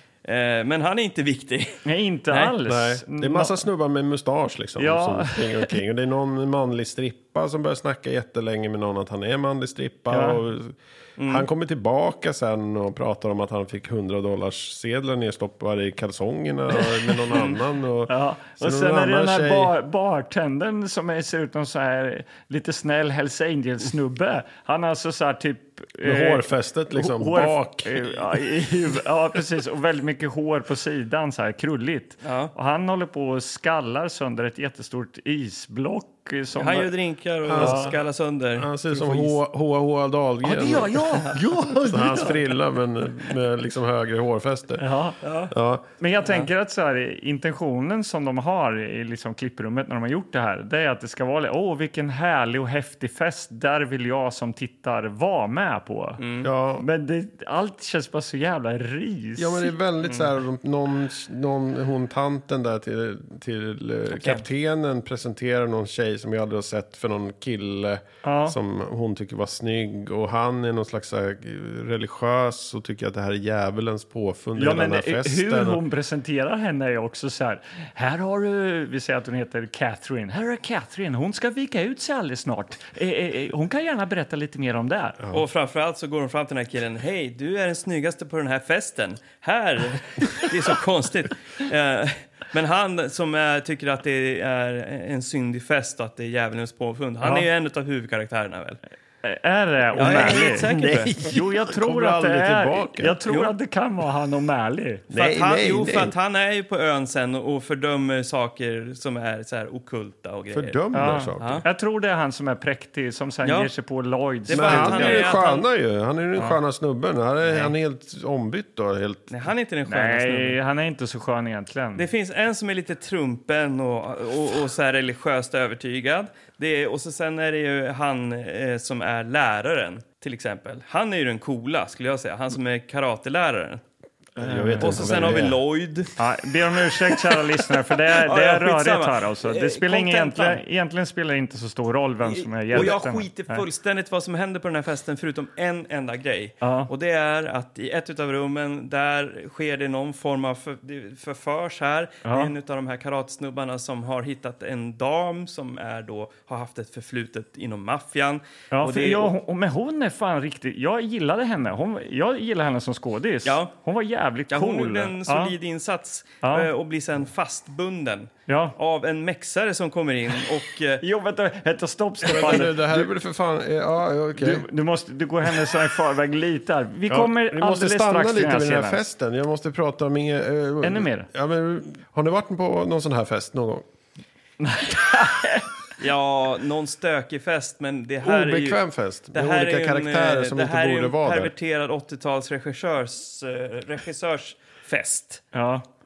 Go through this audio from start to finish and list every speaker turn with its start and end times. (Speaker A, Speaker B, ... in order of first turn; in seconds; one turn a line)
Speaker A: 0.2-2.5
Speaker B: 1.9-3.6
Speaker C: 2.6-19.7
Speaker B: 4.8-5.8
Speaker B: 10.1-10.4
Speaker A: 11.2-11.5
Speaker B: 16.8-17.4
Speaker B: 18.1-36.9
Speaker C: 26.0-28.4
Speaker A: 32.2-32.5
Speaker A: 36.6-39.4
Speaker C: 37.5-37.9
Speaker B: 37.6-37.9
Speaker C: 38.6-41.1
Speaker B: 40.4-42.4
Speaker C: 41.7-44.9
Speaker B: 44.8-45.2
Speaker A: 45.2-45.5
Speaker C: 45.5-45.9
Speaker B: 46.0-56.2
Speaker A: 56.2-56.5
Speaker C: 56.4-56.9
Speaker B: 56.8-59.7
Speaker C: 59.4-75.8
Speaker B: 68.2-68.6
Speaker B: 74.6-85.2
Speaker A: 85.3-98.8
Speaker B: 99.2-105.0
Speaker A: 100.0-101.2
Speaker C: 100.0-103.2
Speaker C: 105.1-106.1
Speaker A: 105.1-110.8
Speaker C: 110.5-111.7
Speaker B: 110.9-115.4
Speaker A: 111.4-111.6
Speaker A: 113.5-113.7
Speaker A: 114.5-115.7
Speaker C: 114.5-119.3
Speaker A: 117.5-117.7
Speaker A: 119.3-120.6
Speaker B: 119.9-122.1
Speaker A: 122.0-133.8
Speaker B: 134.4-135.5
Speaker C: 134.4-135.6
Speaker A: 134.8-136.1
Speaker B: 136.2-143.6
Speaker A: 137.0-140.6
Speaker A: 142.2-159.3
Speaker B: 146.6-146.9
Speaker B: 152.2-152.5
Speaker B: 158.7-165.5
Speaker A: 163.4-163.7
Speaker A: 164.5-171.0
Speaker B: 166.4-166.7
Speaker B: 168.5-168.8
Speaker B: 171.0-173.0
Speaker A: 172.3-172.7
Speaker C: 172.3-174.7
Speaker B: 174.4-179.0
Speaker C: 177.1-183.9
Speaker B: 180.8-181.3
Speaker B: 184.6-185.7
Speaker A: 186.0-188.8
Speaker C: 188.2-191.5
Speaker A: 189.3-195.4
Speaker B: 195.5-195.8